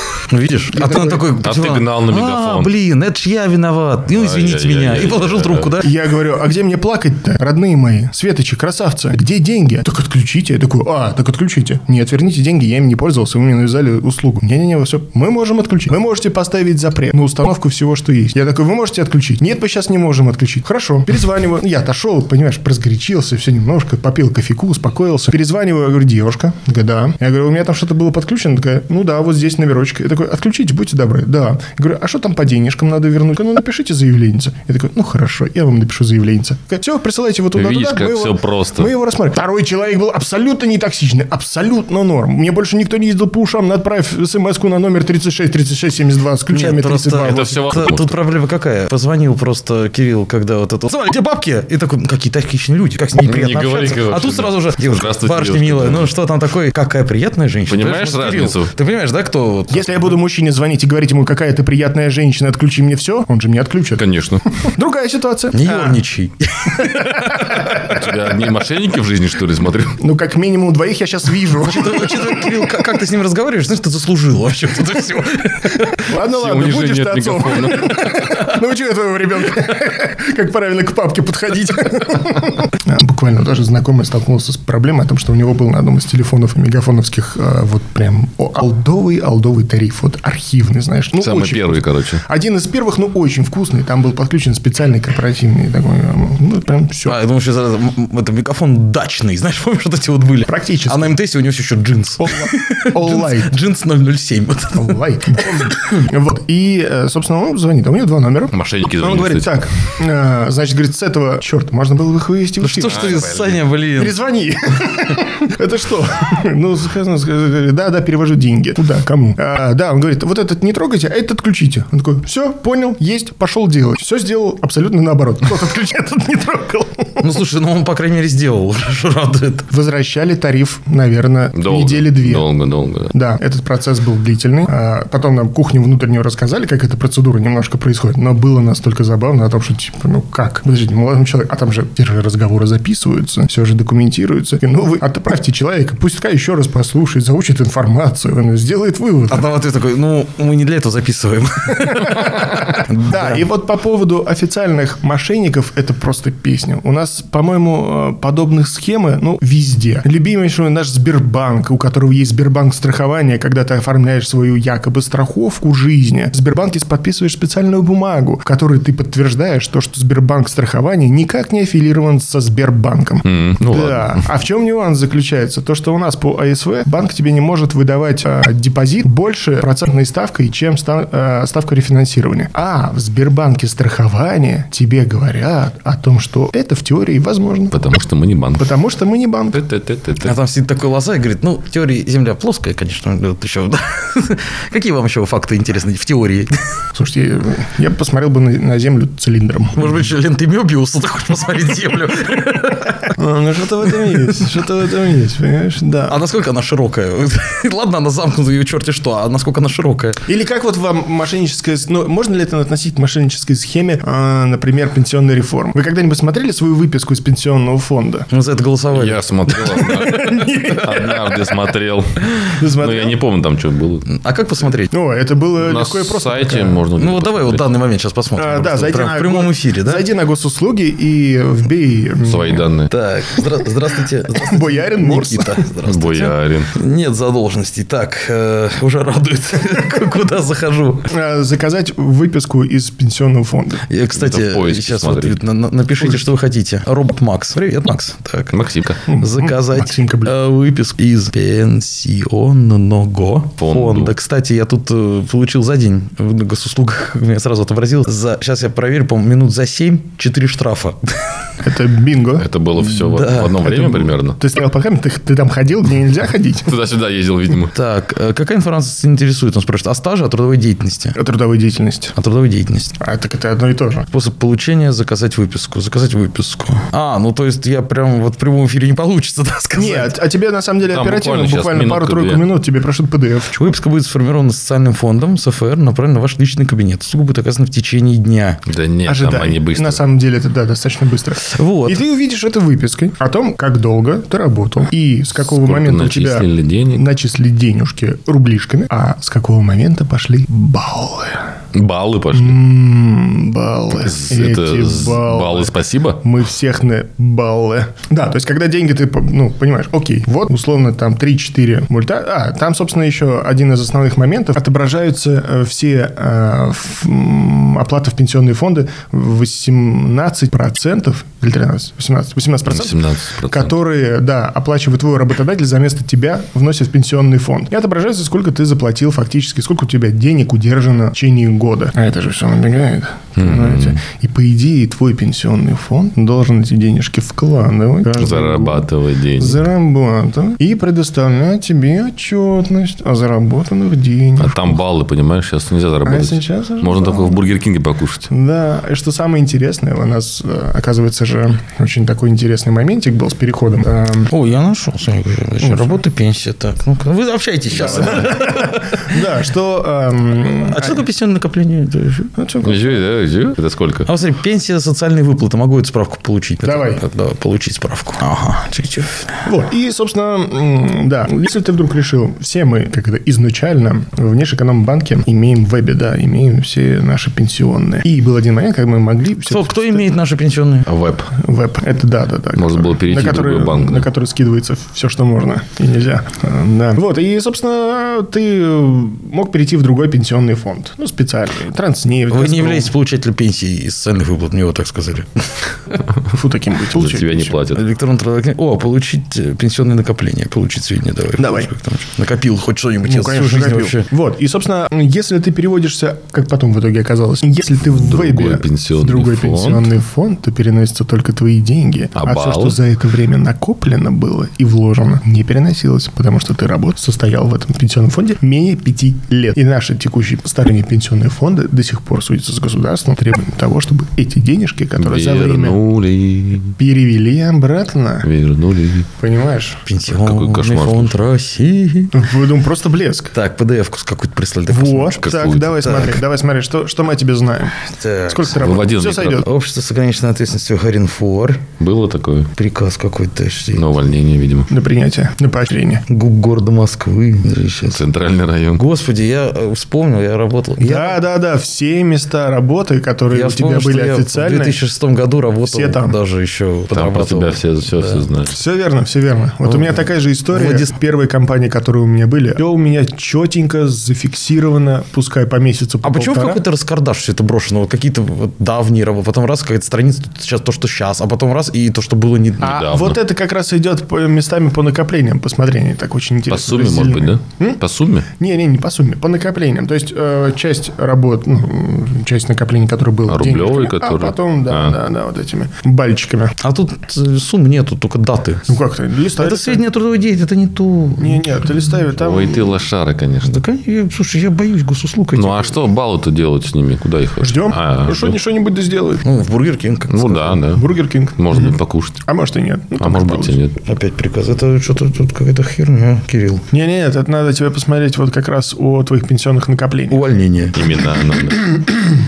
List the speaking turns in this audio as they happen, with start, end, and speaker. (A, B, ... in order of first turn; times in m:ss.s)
0:00.3-0:05.9 A
0:00.7-0:01.3 B
0:01.4-0:02.7 C
0:04.1-0:05.8 C
0:05.8-0:47.7 B
0:37.5-0:38.9 C
0:46.5-1:00.2 A
0:47.2-0:48.1 C
0:53.2-0:56.1 C
0:57.7-0:58.7 C
0:59.7-1:06.0 B
1:04.0-1:04.4 C
1:05.5-1:07.5 A
1:06.8-1:08.0 B
1:07.5-1:10.0 C
1:10.0-1:12.6 B
1:11.6-1:16.0 A
1:16.0-1:37.2 B
1:16.1-1:18.4 C
1:31.2-1:32.2 C
1:37.0-1:46.0 A
1:40.5-1:41.1 B
1:42.2-1:43.5 B
1:44.7-1:53.2 B
1:48.5-1:49.6 C
1:52.6-1:54.2 A
1:52.8-1:53.7 C
1:54.0-2:07.2 B
2:07.2-2:09.7 A
2:09.7-2:12.5 B
2:11.5-2:13.1 C
2:13.1-2:29.4 B
2:29.3-2:33.4 A
2:31.7-3:07.8 B
2:53.2-2:54.2 C
3:07.7-3:08.7 C
3:08.6-3:09.6 B
3:09.5-3:10.4 C
3:10.2-3:16.6 A
3:16.9-3:20.0 B
3:19.7-3:23.1 A
3:23.1-3:26.2 B
3:24.1-3:24.3 A
3:26.1-3:30.2 A
3:30.2-3:38.3 B
3:38.3-3:39.8 A
3:38.9-3:44.0 C
3:39.6-3:41.5 B
3:42.5-3:43.2 B
3:44.0-3:44.9 A
3:44.9-3:46.8 B
3:45.6-3:47.6 C
3:47.0-3:50.0 A
3:48.4-3:52.7 B
3:52.2-3:52.9 C
3:52.9-4:01.1 A
3:54.3-3:55.6 B
3:55.8-3:56.7 C
4:01.1-4:03.8 B
4:03.9-4:21.3 A
4:04.1-4:05.4 C
4:08.5-4:09.1 C
4:09.1-4:10.3 B
4:13.6-4:14.1 C
4:21.6-4:22.5 B
4:22.4-4:24.4 C
4:22.8-4:23.7 A
4:23.6-4:26.7 B
4:26.7-4:27.7 C
4:27.7-4:31.2 A
4:31.2-4:32.1 B
4:32.1-4:33.0 A
4:33.0-4:34.1 B
4:34.1-4:40.1 A
4:39.8-4:43.7 B
4:40.8-4:42.4 C
4:43.5-4:48.6 A
4:48.7-4:50.0 C
4:49.0-5:01.5 B
4:51.4-4:52.0 A
4:55.4-4:57.0 C
5:01.7-5:02.6 C
5:02.3-5:44.8 B
5:04.0-5:06.2 C
5:22.7-5:23.7 C
5:33.4-5:34.0 C
5:38.1-5:39.6 C
5:44.4-5:48.3 C
5:46.0-5:47.4 B
5:48.3-5:54.3 B
5:54.3-5:59.1 A
5:55.6-5:55.9 B
5:57.8-6:01.0 B
5:57.8-5:58.3 C
6:00.6-6:02.3 A
6:02.4-6:03.0 B
6:02.6-6:04.1 C
6:04.0-6:09.3 A
6:06.6-6:07.0 B
6:09.4-6:20.0 B
6:19.5-6:20.9 A
6:20.9-6:21.3 C
6:21.3-6:32.9 B
6:22.5-6:24.1 C
6:32.3-6:35.4 A
6:36.3-6:37.6 B
6:36.9-6:37.8 C
6:37.7-6:44.1 A
6:41.4-6:41.7 B
6:43.0-7:05.8 B
6:47.9-6:49.9 C
6:52.2-6:52.8 C
7:05.0-7:06.8 C
7:06.8-7:08.3 B
7:08.2-7:09.1 C
7:09.2-7:09.8 B
7:09.8-7:12.2 A
7:10.0-7:11.2 C
7:12.1-7:13.3 B
7:13.3-7:15.2 A
7:14.7-7:19.4 B
7:15.2-7:16.0 C
7:15.8-7:16.1 A
7:17.9-7:18.6 A
7:18.5-7:19.4 C
7:19.4-7:21.6 A
7:21.8-7:22.5 C
7:22.6-7:23.8 A
7:23.7-7:24.7 C
7:24.7-7:26.0 B
7:26.1-7:28.0 A
7:27.8-7:28.8 C
7:28.8-7:31.2 A
7:30.8-7:34.8 B
7:33.3-7:38.2 A
7:35.6-7:36.2 B
7:36.9-7:38.6 C
7:38.5-7:46.6 B
7:39.7-7:39.9 A
7:40.5-7:40.9 A
7:46.0-7:52.8 A
7:52.6-7:53.2 C
7:52.6-8:06.6 B
7:56.5-7:58.3 C
8:03.3-8:04.9 C
8:06.6-8:08.8 A
8:08.7-8:09.8 B
8:09.4-8:11.4 A
8:11.2-8:12.8 B
8:12.1-8:13.6 C
8:13.4-8:15.8 A
8:15.4-8:18.4 C
8:17.4-8:19.2 B
8:19.2-8:20.6 A
8:20.1-8:22.2 C
8:20.7-8:23.6 B
8:23.0-8:23.8 C
8:23.8-8:26.6 A
8:26.7-8:30.2 B
8:30.1-8:30.8 A
8:30.7-8:31.9 C